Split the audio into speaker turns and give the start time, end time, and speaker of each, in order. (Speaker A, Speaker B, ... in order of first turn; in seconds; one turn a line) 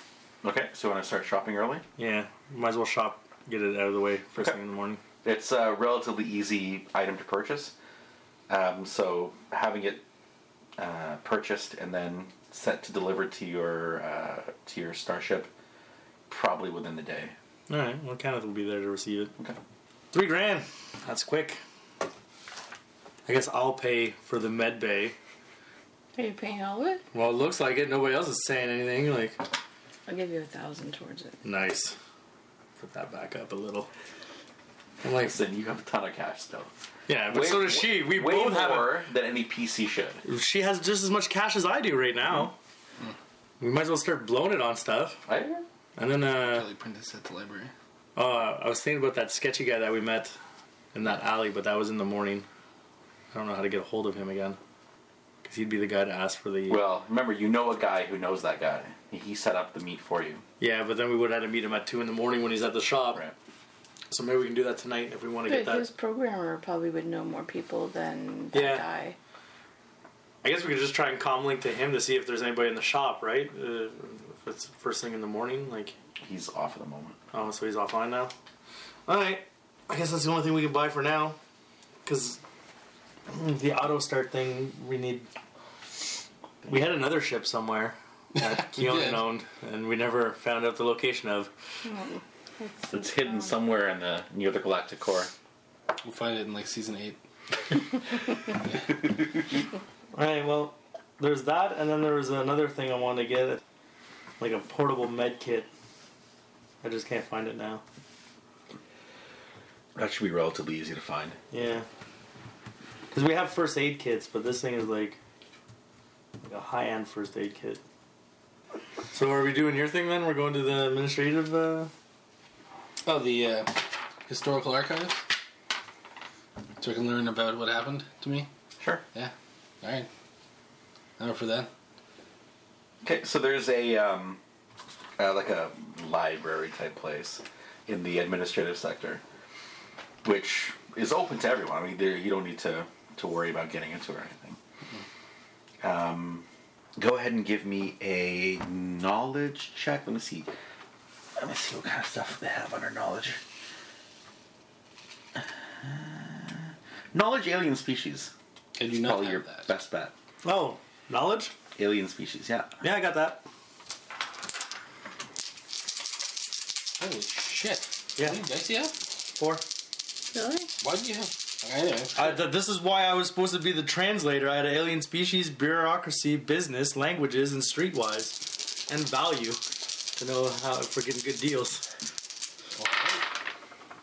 Speaker A: 0.4-1.8
Speaker B: 2.0-5.0
Speaker A: 5.2-7.7
Speaker A: 8.5-10.0
Speaker A: 10.8-15.5
Speaker A: 16.3-17.3
Speaker B: 17.7-19.3
Speaker B: 20.1-21.6
Speaker B: 23.2-25.1
Speaker C: 26.1-27.0
Speaker B: 27.1-29.4
Speaker C: 30.1-31.4
Speaker B: 31.4-31.9
Speaker B: 32.8-33.9
Speaker B: 35.0-35.3
Speaker A: 35.0-36.7
Speaker B: 37.1-39.0
Speaker A: 37.3-40.2
Speaker B: 40.2-42.5
Speaker B: 43.6-45.2
Speaker A: 45.2-45.6
Speaker B: 46.0-46.7
Speaker D: 46.3-47.7
Speaker B: 48.1-50.3
Speaker B: 50.9-52.5
Speaker B: 53.3-54.6
Speaker B: 55.4-56.8
Speaker A: 56.7-60.4
Speaker B: 60.6-63.2
Speaker B: 64.1-65.9
Speaker C: 65.5-69.2
Speaker B: 68.5-68.8
Speaker B: 70.4-75.9
Speaker A: 76.2-77.2
Speaker B: 77.3-78.3
Speaker B: 79.1-81.4
Speaker B: 82.0-82.4
Speaker B: 83.3-85.3
Speaker B: 86.7-91.5
Speaker D: 88.3-89.2
Speaker C: 91.8-93.0
Speaker A: 92.9-95.3
Speaker D: 96.0-97.2
Speaker B: 100.1-103.6
Speaker B: 104.4-105.7
Speaker B: 106.8-107.8
Speaker A: 110.0-111.3
Speaker B: 111.5-111.8
Speaker B: 113.1-115.2
Speaker B: 116.4-117.8
Speaker B: 119.1-121.9
Speaker D: 123.0-125.2
Speaker D: 126.8-128.5
Speaker D: 129.1-130.1
Speaker D: 131.2-131.7
Speaker A: 133.0-134.4
Speaker A: 135.2-139.2
Speaker A: 140.2-144.6
Speaker A: 145.8-150.5
Speaker A: 151.3-153.4
Speaker A: 155.3-158.3
Speaker D: 158.8-159.7
Speaker A: 158.9-160.1
Speaker B: 160.4-161.5
Speaker A: 161.8-162.8
Speaker B: 162.8-163.4
Speaker D: 167.0-168.9
Speaker B: 169.4-169.6
Speaker C: 170.3-170.7
Speaker D: 170.8-172.3
Speaker B: 172.2-179.6
Speaker B: 180.2-181.8
Speaker D: 182.8-183.2